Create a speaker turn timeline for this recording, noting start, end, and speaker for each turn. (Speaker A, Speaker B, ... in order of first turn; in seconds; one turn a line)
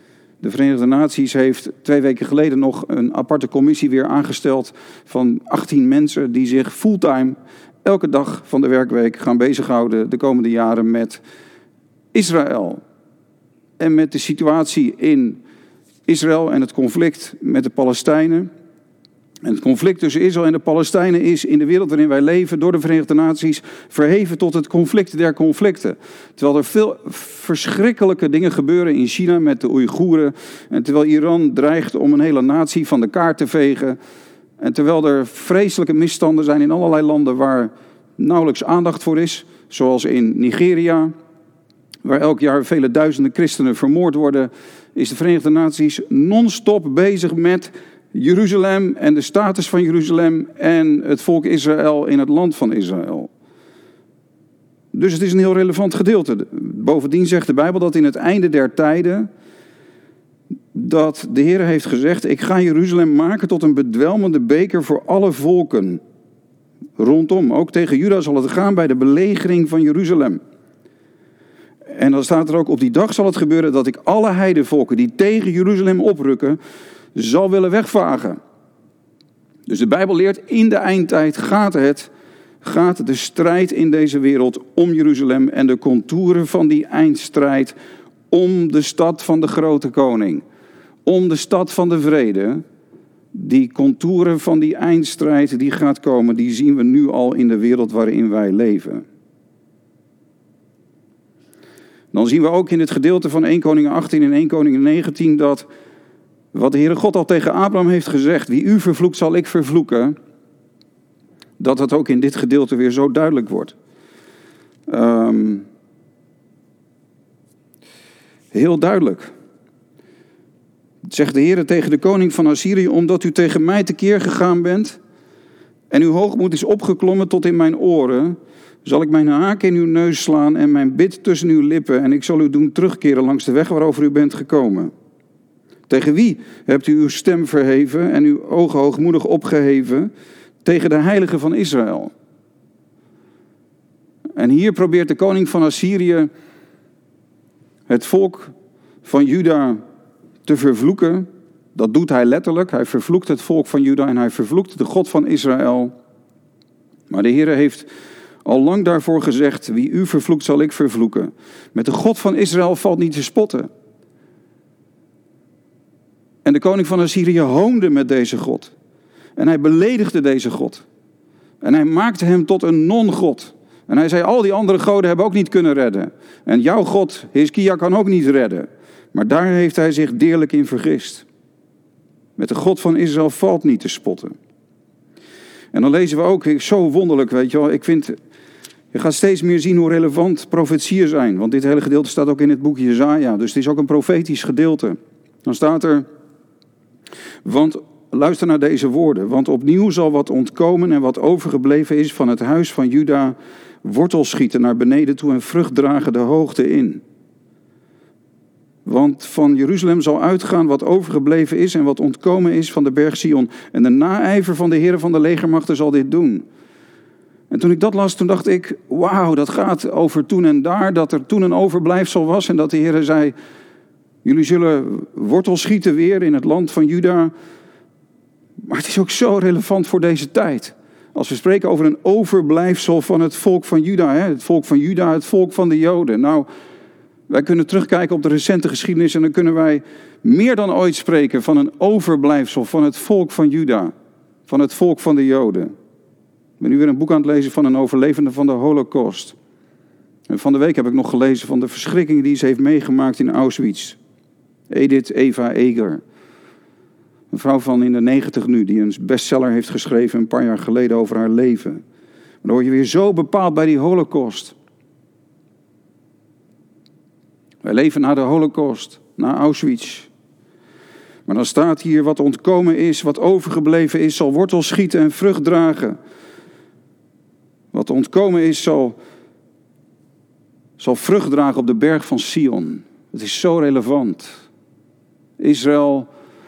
Speaker A: 0.4-11.2
Speaker A: 12.1-12.8
Speaker A: 13.8-15.4
Speaker A: 16.1-18.5
Speaker A: 19.4-34.0
Speaker A: 34.6-41.1
Speaker A: 42.0-53.3
Speaker A: 54.9-59.3
Speaker A: 60.7-66.0
Speaker A: 67.0-70.4
Speaker A: 71.9-76.6
Speaker A: 77.1-78.4
Speaker A: 79.7-82.1
Speaker A: 82.6-87.8
Speaker A: 88.3-90.4
Speaker A: 91.0-92.6
Speaker A: 93.3-99.0
Speaker A: 102.1-105.7
Speaker A: 106.5-110.2
Speaker A: 111.6-113.7
Speaker A: 114.9-115.7
Speaker A: 118.5-119.3
Speaker A: 121.0-125.0
Speaker A: 125.9-134.9
Speaker A: 135.9-140.1
Speaker A: 140.6-142.1
Speaker A: 144.3-146.3
Speaker A: 147.9-148.5
Speaker A: 149.0-149.8
Speaker A: 150.4-155.9
Speaker A: 157.1-157.9
Speaker A: 158.4-163.7
Speaker A: 166.4-168.7
Speaker A: 169.3-170.8
Speaker A: 171.6-181.2
Speaker A: 182.4-184.3
Speaker A: 185.7-188.2
Speaker A: 188.9-196.1
Speaker A: 197.4-207.0
Speaker A: 208.8-216.4
Speaker A: 217.5-223.3
Speaker A: 224.2-227.3
Speaker A: 228.6-236.5
Speaker A: 237.3-243.9
Speaker A: 244.5-245.7
Speaker A: 246.6-249.3
Speaker A: 250.3-254.0
Speaker A: 254.7-256.0
Speaker A: 257.3-261.8
Speaker A: 262.4-264.6
Speaker A: 267.6-270.1
Speaker A: 271.2-276.0
Speaker A: 277.7-279.0
Speaker A: 280.8-284.4
Speaker A: 285.4-286.1